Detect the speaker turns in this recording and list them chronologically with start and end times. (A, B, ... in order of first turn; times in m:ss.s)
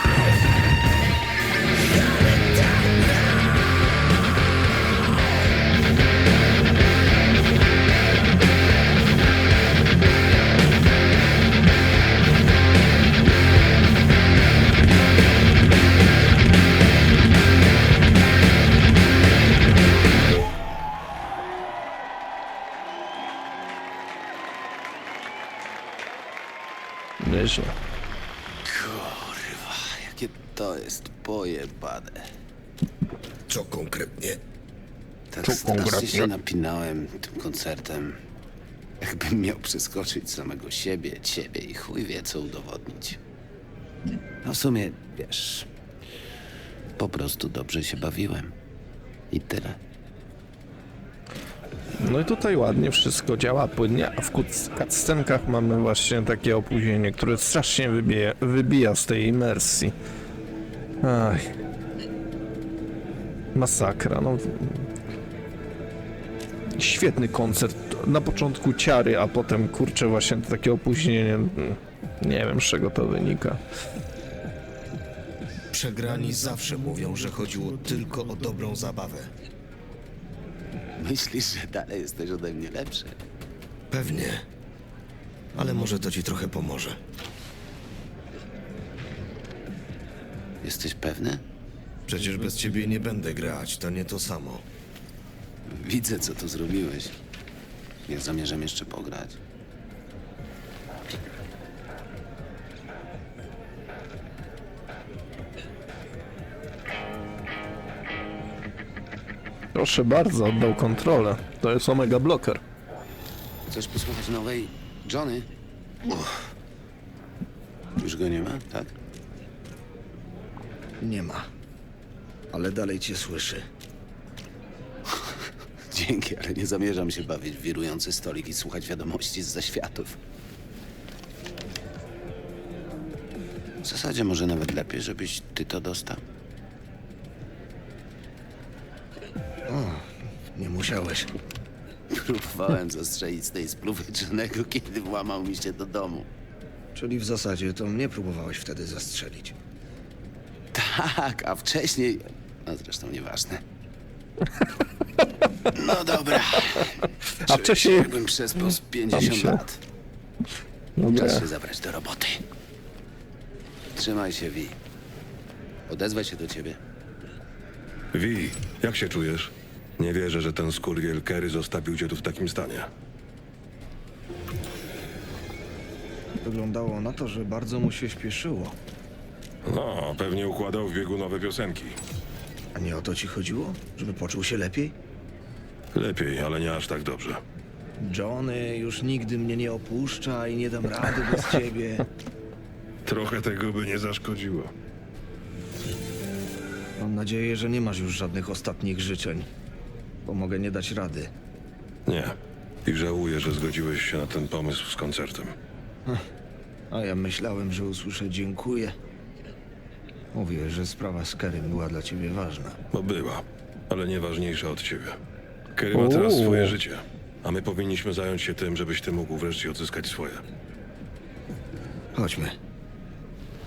0:02.1-0:03.0 A
0:27.2-0:27.7 B
0:28.6-0:32.2 A
0:33.5-0:34.4 C
0:35.3-0:38.2 A
0:35.4-0:36.3 B
0:39.0-0:43.2 A
0:44.4-0:45.7 A
0:47.0-0:48.5 A
0:49.3-0:49.8 A
0:52.0-0:59.9 B
1:01.0-1:01.5 B
1:03.5-1:04.9 B
1:06.8-1:13.6 B
1:15.7-1:19.3 C
1:21.0-1:23.2 A
1:23.9-1:24.4 C
1:25.5-1:27.0 C
1:30.6-1:31.4 A
1:32.1-1:34.6 C
1:35.7-1:37.2 A
1:38.1-1:39.4 A
1:49.7-1:52.6 B
1:53.7-1:55.5 A
1:56.1-1:56.3 A
1:58.0-1:58.9 A
2:01.0-2:01.4 C
2:02.5-2:03.6 C
2:05.9-2:10.2 A
2:13.8-2:16.2 A
2:19.7-2:21.3 C
2:22.1-2:26.3 A
2:26.9-2:29.5 C
2:30.7-2:33.6 A
2:35.7-2:39.8 A
2:37.4-2:38.1 B
2:39.1-2:39.6 B
2:41.0-2:41.5 B
2:41.1-2:42.4 A
2:43.9-2:44.8 A
2:45.9-2:46.8 A
2:48.1-2:52.9 D
2:56.4-2:58.8 C
2:59.6-3:02.0 D
3:02.7-3:04.9 C
3:05.9-3:07.4 D
3:08.0-3:12.0 C
3:13.0-3:14.7 D
3:17.0-3:19.5 C
3:20.2-3:21.3 C
3:22.0-3:25.5 D
3:26.9-3:28.9 C
3:30.3-3:32.8 C
3:32.9-3:35.2 D
3:35.7-3:40.4 D
3:35.9-3:36.8 B
3:42.1-3:42.6 C